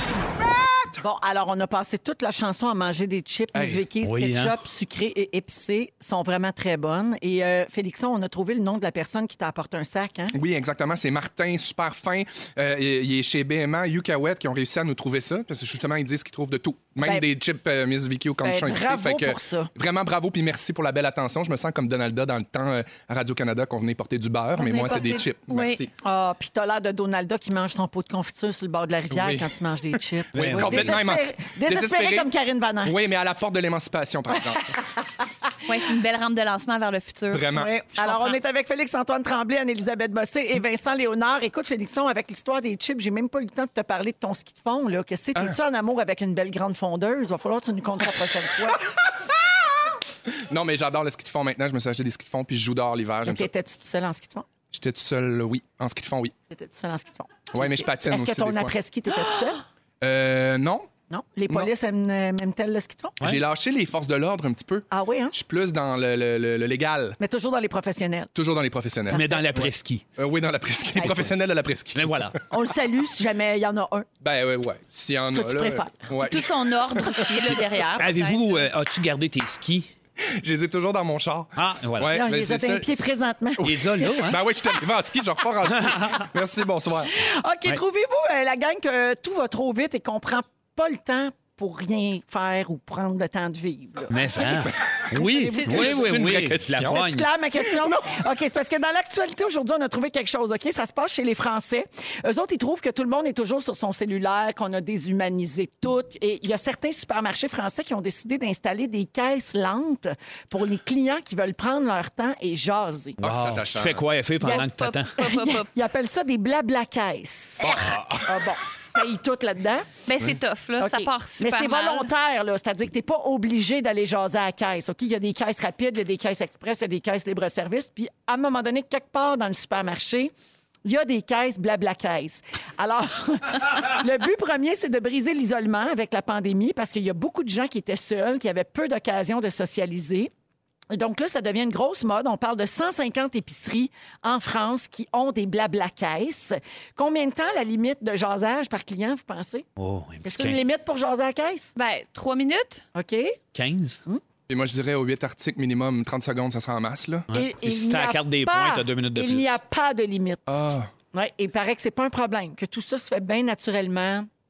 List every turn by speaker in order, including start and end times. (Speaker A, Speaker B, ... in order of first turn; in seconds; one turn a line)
Speaker A: 0.6-0.9
Speaker B: 1.0-10.4
Speaker A: 3.5-3.9
Speaker C: 4.0-4.5
Speaker A: 10.3-25.9
Speaker B: 18.4-19.7
Speaker D: 24.6-25.9
Speaker B: 26.0-33.0
Speaker A: 29.1-29.6
Speaker A: 30.3-32.3
Speaker C: 30.3-31.0
Speaker A: 32.8-34.8
Speaker D: 35.7-38.4
Speaker A: 37.3-37.7
Speaker B: 37.5-48.9
Speaker A: 50.3-53.5
Speaker B: 53.2-54.5
Speaker A: 54.7-56.3
Speaker B: 56.5-59.6
Speaker A: 57.5-58.8
Speaker A: 60.0-60.9
Speaker B: 61.1-63.2
Speaker A: 63.2-67.2
Speaker B: 64.9-65.3
Speaker B: 67.2-68.3
Speaker A: 68.3-69.2
Speaker B: 69.1-69.4
Speaker C: 69.1-70.0
Speaker A: 70.2-72.1
Speaker B: 71.0-71.3
Speaker C: 72.0-72.4
Speaker B: 72.5-74.1
Speaker A: 74.2-77.6
Speaker B: 75.3-76.1
Speaker D: 76.2-78.7
Speaker C: 78.0-79.9
Speaker A: 80.2-87.1
Speaker C: 81.6-82.2
Speaker B: 82.1-83.6
Speaker C: 83.6-84.4
Speaker C: 85.8-86.2
Speaker B: 87.1-113.2
Speaker C: 94.1-97.3
Speaker A: 94.4-97.0
Speaker A: 97.6-98.2
Speaker A: 113.2-114.1
Speaker C: 113.2-115.2
Speaker D: 114.4-115.7
Speaker B: 115.2-119.9
Speaker A: 117.6-118.4
Speaker D: 120.1-122.1
Speaker B: 120.8-130.3
Speaker B: 130.8-140.3
Speaker B: 140.9-149.7
Speaker C: 149.8-150.6
Speaker B: 150.2-151.8
Speaker D: 151.8-152.8
Speaker B: 152.9-153.4
Speaker C: 153.5-154.0
Speaker A: 154.5-157.3
Speaker C: 157.3-159.6
Speaker B: 157.3-164.3
Speaker A: 160.5-160.9